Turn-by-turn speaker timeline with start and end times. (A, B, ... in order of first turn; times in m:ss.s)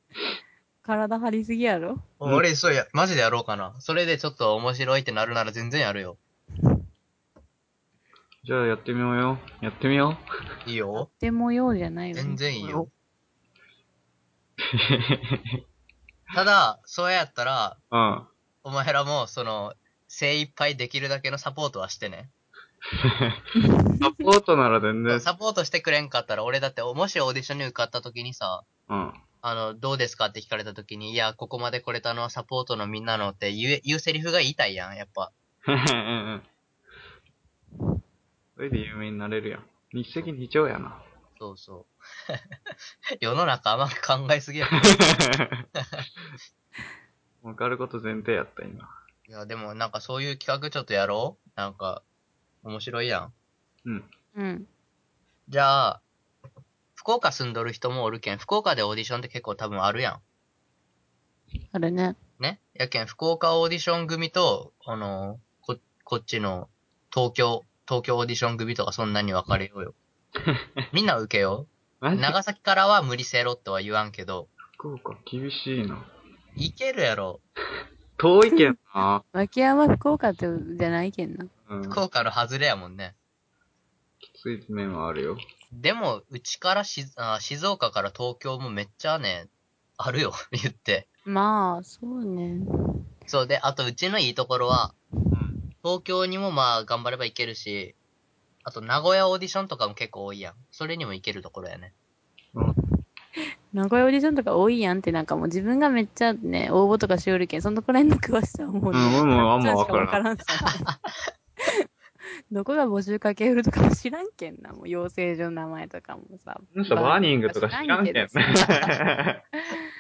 0:00.8-0:02.0 A
0:02.2-0:06.2 B
0:08.4-0:10.2 C
0:10.6-0:11.1 B
0:11.1-0:12.9 A
0:12.1-0:12.9 B
0:14.6-0:15.6 C
0:16.3-0:17.8 B
0:17.9-0:18.3 C
0:18.6-0:22.3 B
0:22.9-0:23.4 C
0:23.6-0:24.2 A
0:24.0-0:25.2 C
0:25.1-0:28.6 B
0:28.9-0:29.2 C
0:29.4-0:35.3 B
0:35.7-0:36.5 C
0:38.6-0:41.0 C
0:41.4-0:42.4 B
0:43.2-0:44.9 B
0:44.8-0:45.6 C
0:45.8-0:46.0 B
0:47.4-0:48.9 C
0:49.3-0:52.0 B
0:52.6-0:53.3 B
0:54.4-0:54.7 A
0:55.5-0:56.0 B
0:57.0-1:00.2 B
1:01.7-1:02.2 A
1:02.4-1:10.0 B
1:10.4-1:10.8 C
1:10.9-1:14.5 B
1:12.0-1:12.4 C
1:14.7-1:16.1 C
1:16.6-1:17.4 B
1:18.2-1:19.2 C
1:19.3-1:21.5 A
1:21.7-1:22.0 C
1:21.9-1:23.1 B
1:24.2-1:25.4 C
1:25.7-1:31.1 B
1:31.2-1:32.6 A
1:33.3-1:34.9 B
1:35.3-1:35.6 C
1:35.8-1:38.0 B
1:38.6-1:41.9 B
1:43.7-1:50.9 A
1:48.9-1:50.2 C
1:50.9-1:51.3 B
1:52.5-1:58.8 A
1:56.7-1:59.4 C